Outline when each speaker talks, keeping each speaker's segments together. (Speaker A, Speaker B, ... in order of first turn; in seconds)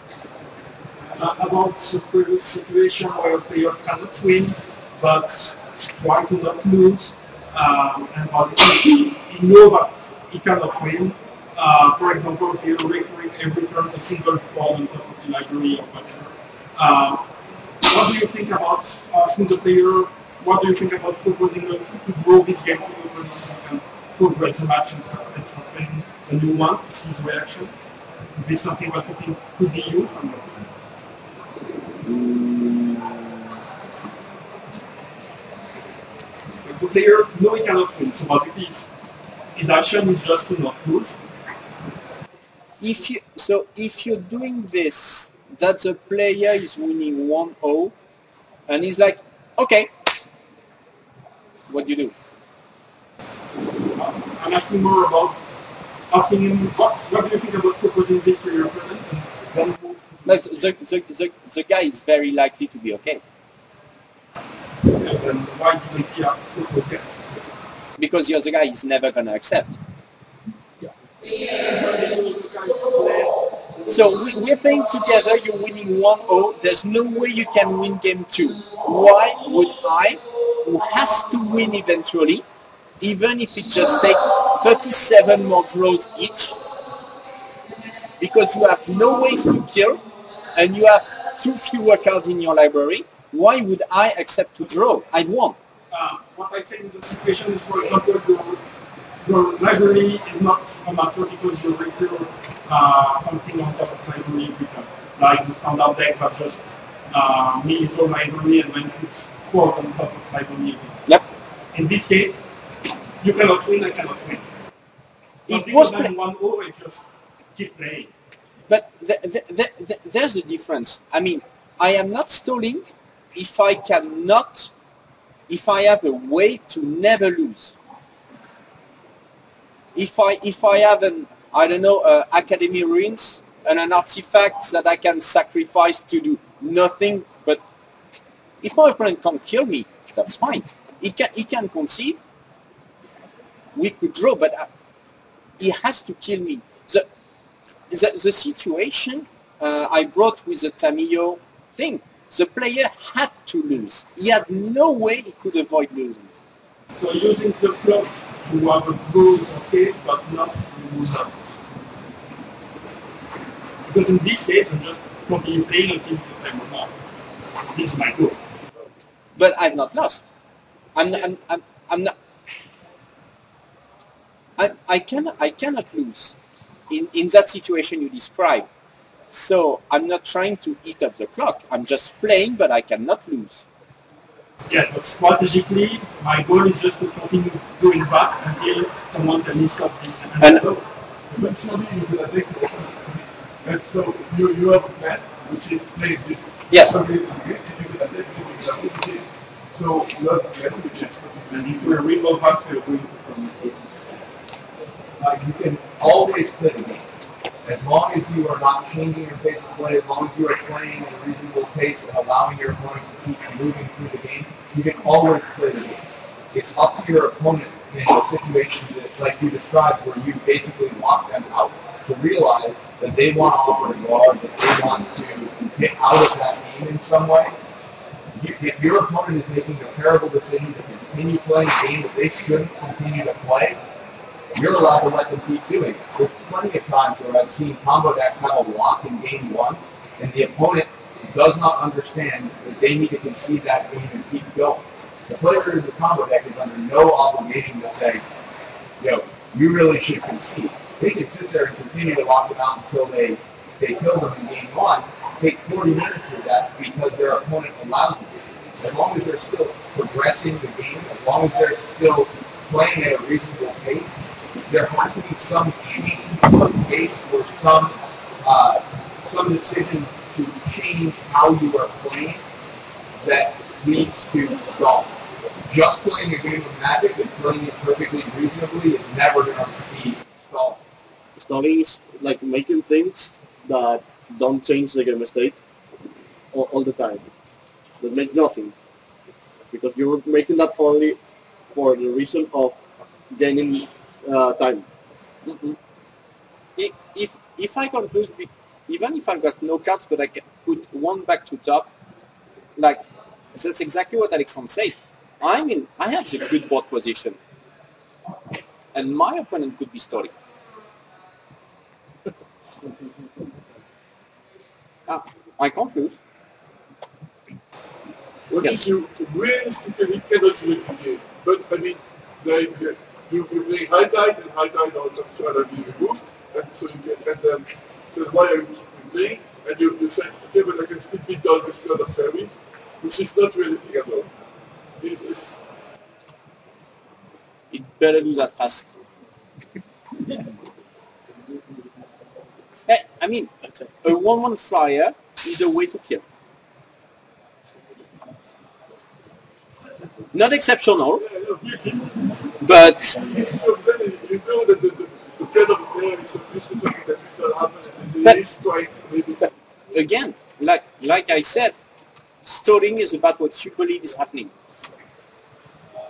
Speaker A: 1.0-17.2, 17.8-27.7, 28.4-30.7, 36.6-38.9, 39.5-41.2, 53.9-55.4, 56.1-60.5, 64.9-67.2, 71.6-73.4, 95.9-98.6, 99.2-111.0, 111.7-112.4, 113.2-114.5, 115.5-117.0, 117.5-118.1, 157.0-161.6, 163.8-166.9, 167.7-168.4, 184.7-190.8, 201.5-204.2, 351.6-352.6
Speaker B: 32.0-33.2, 281.4-285.6, 286.5-287.3, 288.0-288.7, 289.7-291.2, 291.7-292.8, 293.3-294.9
Speaker C: 42.8-47.9, 48.7-49.9, 51.7-52.1, 60.2-63.2, 68.0-69.8, 73.9-82.5, 83.0-86.6, 88.2-90.0, 90.6-95.6, 115.5-116.1, 118.7-124.7, 125.5-127.8, 129.9-137.6, 138.6-142.2, 143.8-144.7, 145.6-147.1, 147.9-156.3, 169.4-170.3, 171.0-172.1, 174.6-176.4, 176.9-178.7, 179.3-183.7, 196.7-197.0, 295.4-295.8, 296.8-301.9, 302.8-303.0, 303.5-307.4, 308.9-310.3, 315.1-316.2, 337.7-339.0, 342.9-343.5, 344.0-346.2, 350.3-351.2, 352.6-353.1, 359.9-361.8, 362.4-364.5
Speaker D: 190.5-202.0, 318.5-334.3, 335.0-335.6, 351.2-351.7, 353.1-359.5
Speaker E: 205.2-207.0, 207.7-227.6, 228.3-233.8, 234.6-248.2, 249.0-272.4, 273.2-275.1, 275.7-280.8